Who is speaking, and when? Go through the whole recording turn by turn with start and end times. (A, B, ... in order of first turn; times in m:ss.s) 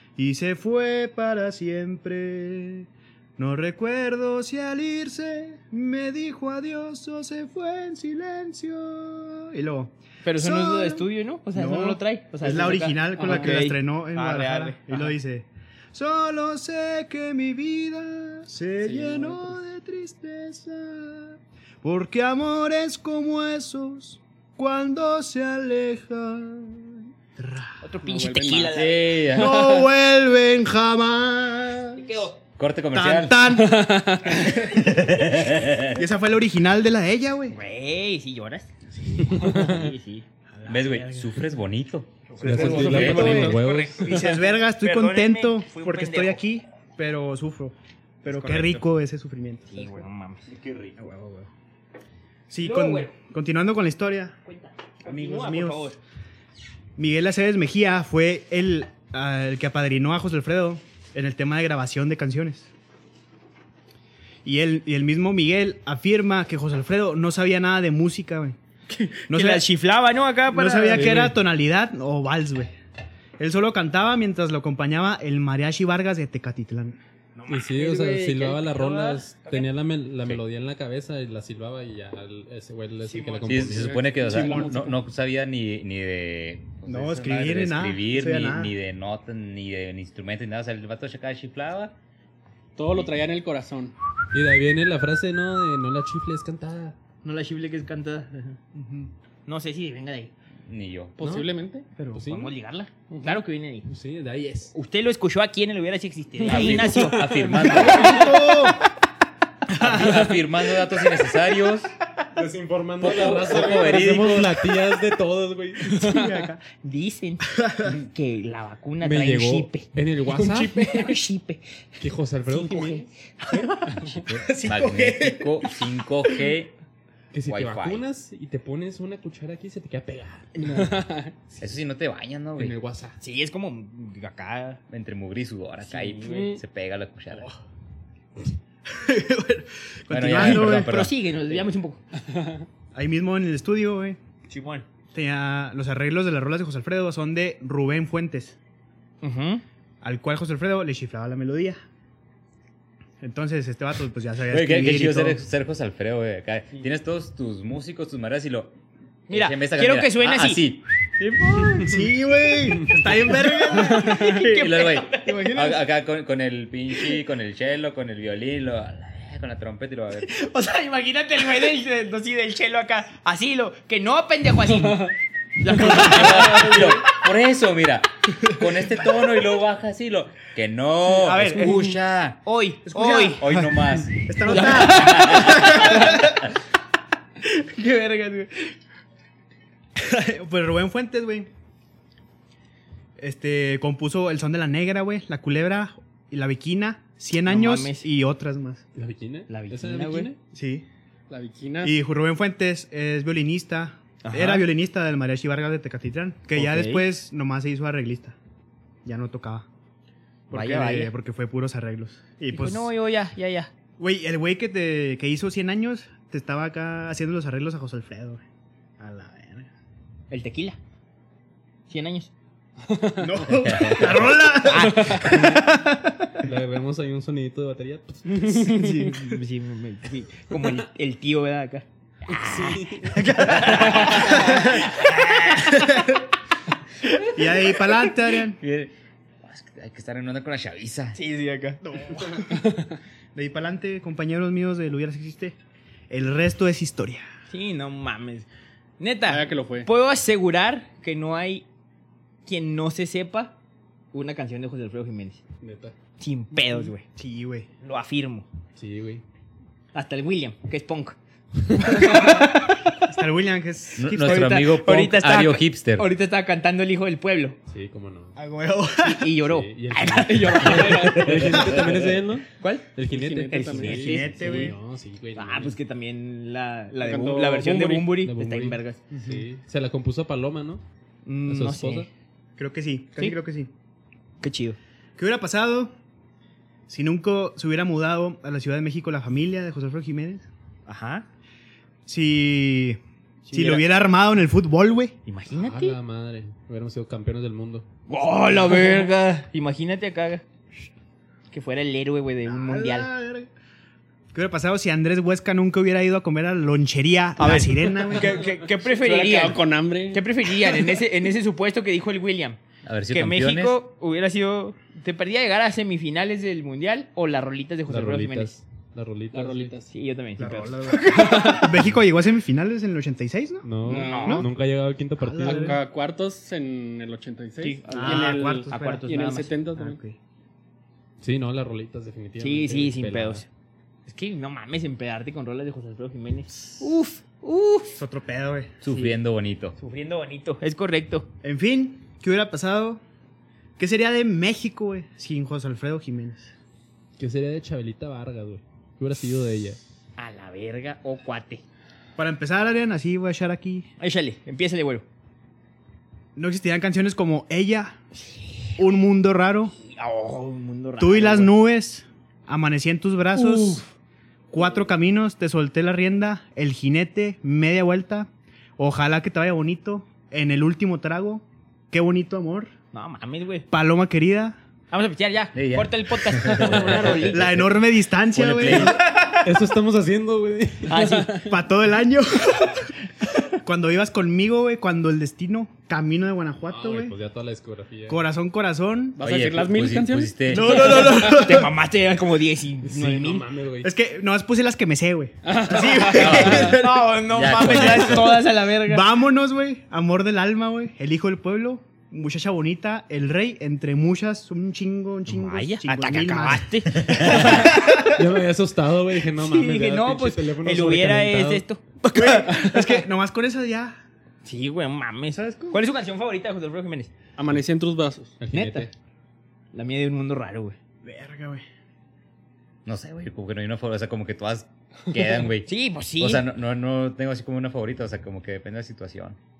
0:00.2-0:27.7 A
0:10.2-0:15.1 B
0:18.8-0:19.5 B
0:27.8-0:29.2 B
0:28.0-0:29.5 C
0:28.7-0:29.8 D
0:29.3-0:32.1 A
0:32.0-0:32.4 B
0:32.6-0:33.5 D
0:32.9-0:37.6 A
0:33.6-0:34.6 C
0:34.7-0:36.0 D
0:37.5-0:41.4 B
0:39.3-0:39.9 E
0:40.7-0:43.6 D
0:42.3-0:46.4 B
0:42.4-0:50.0 A
0:42.4-0:44.0 E
0:48.2-0:48.8 B
0:49.7-0:51.5 B
0:50.6-0:50.9 D
0:52.5-0:54.4 A
0:52.6-0:53.1 B
0:54.4-0:56.0 B
0:55.0-0:55.9 A
0:57.0-1:02.7 A
1:04.4-1:08.6 A
1:08.9-1:11.2 B
1:09.3-1:09.7 A
1:10.5-1:12.7 A
1:10.9-1:11.4 E
1:13.4-1:17.0 A
1:17.4-1:19.7 B
1:17.5-1:24.0 E
1:23.0-1:23.7 B
1:23.4-1:31.9 D
1:23.7-1:25.0 C
1:24.3-1:24.7 B
1:24.3-1:24.6 A
1:26.9-1:28.7 A
1:32.8-1:33.9 C
1:34.3-1:37.0 E
1:37.2-1:38.6 B
1:38.7-1:39.1 A
1:39.5-1:40.3 B
1:40.7-1:41.2 D
1:41.2-1:41.9 C
1:41.2-1:41.5 E
1:42.1-1:42.5 E
1:42.1-1:43.9 B
1:43.1-1:43.4 C
1:43.9-1:44.7 E
1:44.7-1:48.5 B
1:46.4-1:46.8 C
1:46.4-1:48.3 D
1:46.9-1:48.1 E
1:47.7-1:48.8 A
1:49.8-1:50.0 A
1:49.8-1:51.9 D
1:49.8-1:50.2 B
1:52.3-1:56.1 E
1:53.0-1:54.6 D
1:55.9-2:01.6 B
1:56.0-1:56.6 A
1:57.5-1:57.9 A
1:59.0-2:00.9 E
2:02.0-2:03.0 E
2:02.5-2:05.7 B
2:04.3-2:06.7 D
2:04.6-2:05.1 A
2:07.3-2:10.6 E
2:07.4-2:08.0 D
2:10.6-2:11.0 B
2:10.7-2:11.3 C
2:11.6-2:12.8 D
2:12.6-2:13.2 E
2:13.2-2:14.8 B
2:14.9-2:17.5 D
2:15.8-2:16.5 B
2:16.3-2:16.6 C
2:18.9-2:21.0 A
2:20.1-2:21.6 D
2:20.3-2:22.0 B
2:22.3-2:22.6 C
2:22.9-2:24.2 A
2:24.5-2:24.9 B
2:25.1-2:28.6 A
2:29.2-2:29.6 B
2:30.0-2:31.8 A
2:33.2-2:35.4 A
2:34.5-2:38.8 D
2:39.3-2:40.9 D
2:39.3-2:42.0 B
2:41.8-2:44.4 A
2:43.2-2:45.8 B
2:44.1-2:50.4 D
2:50.2-2:57.0 B
2:54.8-2:55.1 C
2:55.7-3:02.4 D
2:56.1-2:56.8 C
3:01.1-3:02.0 A
3:01.6-3:01.8 B
3:02.4-3:03.4 B
3:02.8-3:06.2 A
3:03.4-3:05.9 D
3:04.4-3:06.4 B
3:07.4-3:08.7 B
3:10.0-3:11.5 A
3:13.2-3:18.8 A
3:17.4-3:18.0 B
3:18.9-3:20.4 E
3:19.5-3:20.3 B
3:20.5-3:20.9 A
3:21.3-3:22.0 C
3:21.8-3:28.4 A
3:24.2-3:24.7 B
3:26.5-3:27.1 B
3:29.0-3:29.7 A
3:30.5-3:32.9 A
3:30.5-3:31.1 B
3:32.5-3:33.7 B
3:34.0-3:38.4 A
3:39.0-3:39.7 A
3:40.3-3:40.8 B
3:41.9-3:42.3 B
3:42.8-3:43.4 C
3:43.2-3:46.0 A
3:43.5-3:44.4 D
3:44.6-3:45.8 B
3:44.8-3:45.5 C
3:46.4-3:48.5 E
3:48.4-3:49.1 C
3:48.4-3:56.1 B
3:49.0-3:49.3 A
3:52.3-3:53.3 E
3:53.1-3:56.2 A
3:57.0-3:57.9 B
3:57.3-3:58.6 A
3:58.6-4:01.2 D
4:01.1-4:02.3 B
4:01.8-4:02.6 A
4:03.4-4:05.6 A
4:06.1-4:07.2 A
4:07.5-4:08.5 B
4:09.0-4:11.6 B
4:09.3-4:09.9 C
4:12.4-4:13.5 B
4:14.1-4:15.4 B
4:15.6-4:15.9 E
4:16.2-4:17.0 B
4:17.1-4:17.7 A
4:17.8-4:18.4 B
4:18.8-4:19.2 E
4:19.9-4:22.9 B
4:23.0-4:24.6 A
4:24.0-4:26.1 D
4:24.2-4:27.6 B
4:27.7-4:28.4 E
4:28.4-4:29.3 A
4:29.0-4:31.8 B
4:29.4-4:35.8 E
4:30.2-4:31.7 C
4:31.5-4:31.7 A
4:32.6-4:32.9 B
4:33.1-4:34.1 C
4:33.5-4:34.7 B
4:33.9-4:34.8 A
4:35.4-4:39.0 B
4:37.0-4:38.1 C
4:38.2-4:40.8 E
4:39.1-4:39.4 A
4:41.2-4:42.1 B
4:41.4-4:42.1 E
4:42.6-4:43.7 A
4:44.4-4:44.8 B
4:45.2-4:45.9 A
4:46.9-4:50.4 A
4:50.9-4:51.3 B
4:52.0-4:53.0 A
4:53.4-4:53.9 B
4:53.5-4:55.1 A
4:55.2-4:56.0 B
4:55.5-4:57.8 E
4:58.1-5:00.4 B
5:01.5-5:03.1 B
5:02.4-5:03.5 A
5:04.3-5:08.4 A
5:07.4-5:18.6 B
5:08.8-5:10.2 C
5:12.8-5:13.8 D
5:17.9-5:19.7 E
5:19.3-5:19.9 C
5:19.9-5:21.7 B
5:20.4-5:23.7 A
5:21.2-5:21.7 C
5:23.6-5:25.8 E
5:23.8-5:24.4 B
5:23.9-5:24.4 C
5:24.2-5:24.5 A
5:25.2-5:25.8 A
5:25.4-5:30.0 C
5:27.6-5:29.6 B
5:27.9-5:29.0 A
5:29.8-5:30.2 A
5:31.2-5:33.4 E
5:32.4-5:33.4 B
5:34.1-5:38.0 B
5:38.0-5:38.8 A
5:38.8-5:39.8 D
5:38.9-5:39.2 B
5:39.8-5:41.3 B
5:41.4-5:43.0 A
5:43.8-5:46.5 A
5:47.2-5:49.8 E
5:50.2-5:51.6 B
5:52.2-5:53.9 A
5:54.0-5:55.0 B
5:56.4-5:58.0 A
5:58.8-5:59.7 A
5:59.8-6:01.6 B
6:01.0-6:03.8 A
6:03.4-6:03.9 B
6:04.5-6:12.7 A
6:12.9-6:13.7 B
6:13.7-6:14.6 A
6:14.9-6:17.5 B
6:15.5-6:17.8 D
6:17.0-6:19.0 A
6:18.3-6:19.0 D
6:18.7-6:19.4 B
6:19.3-6:21.1 E
6:20.9-6:21.5 B
6:21.0-6:21.4 C
6:21.4-6:27.1 A
6:26.7-6:28.2 E
6:28.1-6:29.2 A
6:29.2-6:31.2 C
6:29.2-6:31.0 D
6:30.5-6:31.7 A
6:30.6-6:33.5 B
6:32.8-6:33.9 E
6:33.8-6:37.1 A
6:35.4-6:36.7 C
6:36.1-6:38.4 D
6:36.1-6:39.0 B
6:37.6-6:38.2 A
6:38.8-6:47.7 A
6:45.3-6:48.1 B
6:47.4-6:51.6 E
6:49.3-6:53.0 B
6:52.1-6:54.0 A
6:54.4-6:57.1 B
6:55.3-6:55.8 A
6:57.4-6:58.4 C
6:58.4-6:58.9 E
6:58.5-6:58.9 B
6:59.7-7:00.8 B
7:01.0-7:01.6 A
7:02.8-7:09.4 D
7:05.6-7:06.4 B